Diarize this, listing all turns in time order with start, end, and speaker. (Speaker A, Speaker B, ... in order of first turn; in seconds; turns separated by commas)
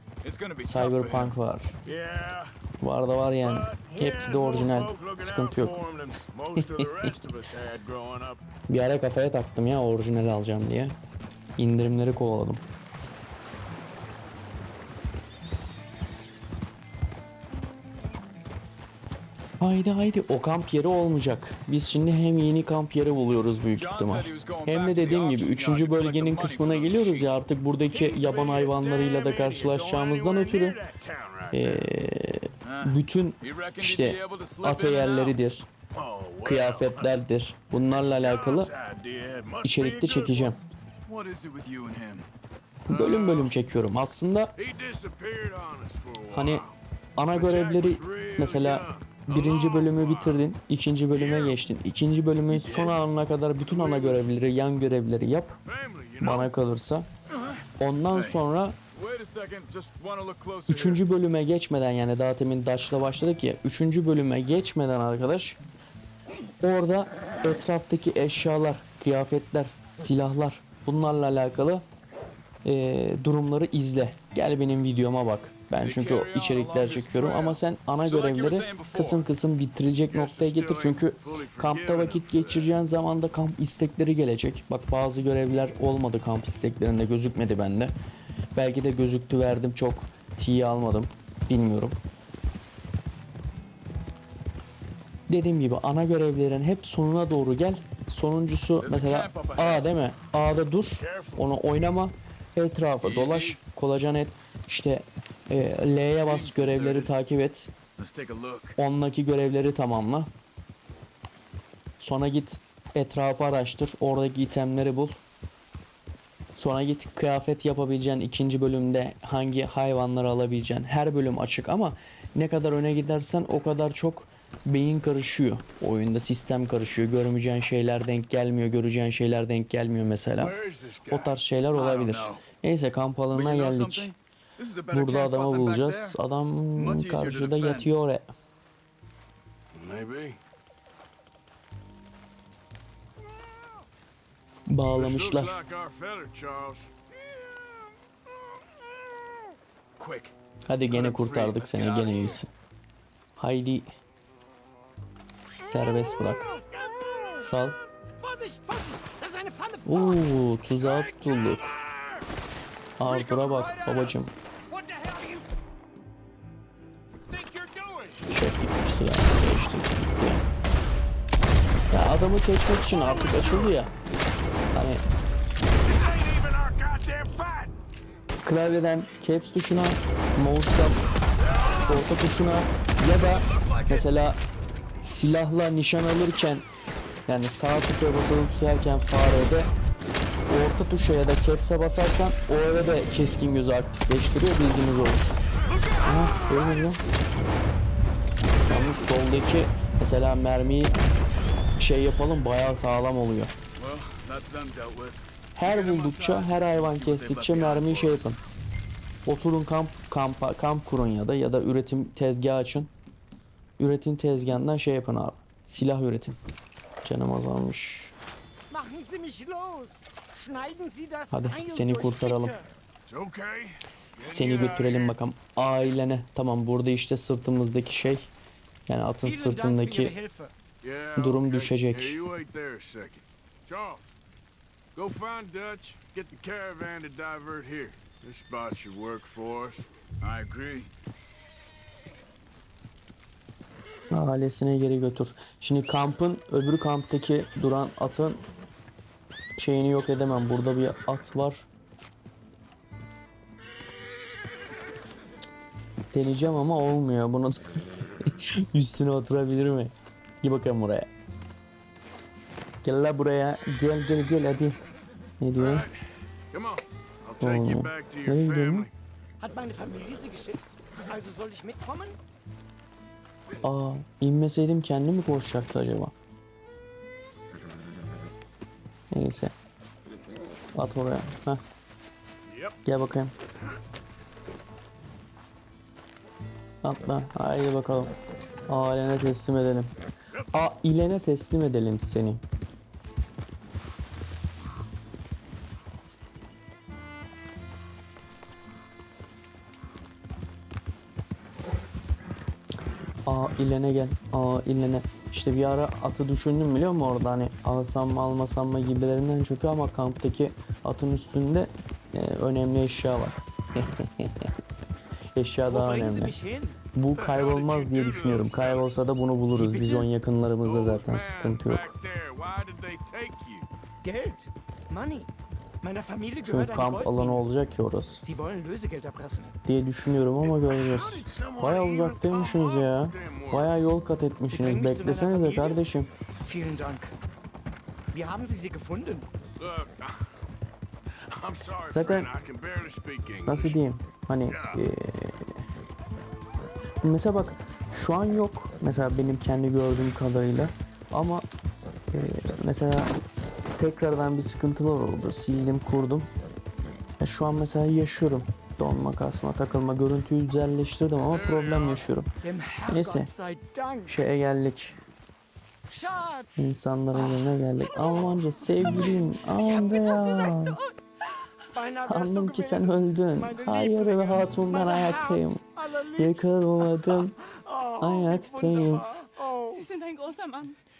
Speaker A: 0.2-1.3, Speaker B: 0.6-1.7, Speaker C: 1.8-2.5, Speaker B: 2.8-5.8, Speaker C: 3.4-8.4, Speaker B: 8.7-10.9, Speaker B: 11.6-12.6, Speaker B: 19.6-30.8, Speaker A: 23.7-27.3, Speaker C: 27.9-31.9, Speaker B: 31.5-35.7, Speaker A: 32.6-35.4, Speaker C: 35.9-37.2, Speaker B: 36.4-38.7, Speaker C: 37.7-40.5, Speaker B: 39.6-40.6, Speaker A: 41.0-42.3, Speaker C: 42.9-43.5, Speaker B: 42.9-44.5, Speaker C: 44.6-46.8, Speaker B: 46.3-46.6, Speaker B: 47.1-55.5, Speaker C: 47.3-50.5, Speaker C: 51.1-51.6, Speaker C: 52.5-52.9, Speaker C: 53.6-54.3, Speaker C: 55.6-56.5, Speaker B: 56.2-57.1, Speaker B: 57.8-58.8, Speaker A: 58.1-58.4, Speaker A: 58.9-61.0, Speaker B: 60.7-65.6, Speaker B: 66.6-71.8, Speaker B: 72.6-87.9, Speaker A: 75.8-79.3, Speaker C: 77.0-77.6, Speaker C: 80.1-82.8, Speaker B: 88.5-92.0, Speaker B: 95.3-107.7, Speaker A: 98.8-99.8, Speaker C: 101.0-101.5, Speaker A: 103.0-103.6, Speaker A: 106.0-107.1, Speaker A: 108.0-108.8, Speaker B: 108.8-110.3, Speaker B: 112.0-115.2, Speaker B: 116.5-130.6, Speaker C: 130.4-131.4, Speaker B: 131.1-134.1, Speaker A: 131.7-132.4, Speaker A: 133.3-136.2, Speaker B: 134.9-138.3, Speaker A: 136.8-137.9, Speaker C: 139.7-140.4, Speaker B: 144.7-145.6, Speaker C: 144.9-146.9, Speaker B: 150.7-152.5, Speaker C: 150.9-151.3, Speaker A: 151.4-152.4, Speaker B: 153.3-153.9, Speaker B: 155.6-156.5, Speaker D: 156.0-157.3, Speaker C: 156.9-157.3, Speaker B: 157.4-157.8, Speaker D: 158.2-160.3, Speaker B: 159.8-161.7, Speaker C: 160.8-162.2, Speaker B: 163.0-164.3, Speaker D: 163.0-165.4, Speaker C: 167.4-167.9, Speaker D: 167.6-168.2, Speaker B: 168.3-170.4, Speaker B: 171.9-173.9, Speaker C: 172.9-173.8, Speaker B: 174.7-175.0, Speaker C: 175.8-177.7, Speaker B: 178.4-181.0, Speaker C: 181.4-182.1, Speaker B: 181.7-184.4, Speaker A: 183.3-184.0, Speaker B: 185.0-186.6, Speaker B: 187.3-189.7, Speaker B: 190.5-195.4, Speaker C: 195.7-196.8, Speaker B: 196.0-197.0, Speaker B: 198.7-200.9, Speaker B: 201.8-203.5, Speaker A: 203.8-208.3, Speaker B: 205.5-208.4, Speaker B: 209.2-212.9, Speaker B: 213.8-216.4, Speaker B: 217.0-218.1, Speaker D: 218.7-222.6, Speaker B: 221.3-222.6, Speaker C: 223.1-225.2, Speaker B: 224.2-228.3, Speaker B: 228.9-230.1, Speaker D: 229.2-230.5, Speaker C: 230.8-234.1, Speaker B: 231.2-232.2, Speaker C: 234.9-239.9, Speaker A: 240.2-240.9, Speaker B: 244.1-248.4, Speaker B: 249.6-251.7, Speaker B: 256.1-261.1, Speaker B: 262.8-264.8, Speaker B: 265.4-265.9, Speaker C: 265.6-268.9, Speaker B: 267.4-268.9, Speaker D: 269.4-272.2, Speaker B: 273.6-276.1, Speaker B: 279.1-279.5, Speaker B: 280.7-281.6, Speaker C: 282.5-282.8, Speaker B: 282.8-283.3, Speaker B: 286.8-288.1, Speaker B: 288.7-289.9, Speaker B: 290.5-292.4, Speaker B: 303.2-314.5, Speaker B: 315.3-316.4, Speaker D: 315.7-316.8, Speaker B: 316.9-321.9, Speaker C: 317.1-318.9, Speaker D: 319.5-320.1, Speaker C: 320.6-323.7, Speaker D: 324.0-325.3, Speaker D: 325.8-327.4, Speaker B: 326.4-328.2, Speaker D: 328.2-329.6, Speaker B: 329.6-336.1, Speaker C: 330.6-333.8, Speaker D: 334.5-335.8, Speaker D: 336.4-337.1, Speaker D: 338.1-339.3, Speaker C: 339.6-340.3, Speaker C: 341.2-343.8, Speaker B: 341.9-342.3, Speaker B: 343.4-345.6, Speaker C: 344.5-344.8, Speaker B: 347.0-351.4, Speaker B: 352.1-353.1, Speaker B: 353.8-356.3, Speaker B: 357.2-362.3, Speaker C: 361.3-362.1, Speaker D: 362.4-364.2, Speaker B: 362.9-363.3, Speaker B: 364.1-365.0, Speaker D: 365.9-368.4, Speaker B: 366.6-370.8, Speaker D: 369.5-370.1, Speaker E: 369.6-371.0, Speaker D: 371.7-379.9, Speaker B: 371.9-375.6, Speaker B: 376.1-377.4, Speaker B: 378.0-379.1, Speaker E: 379.7-380.8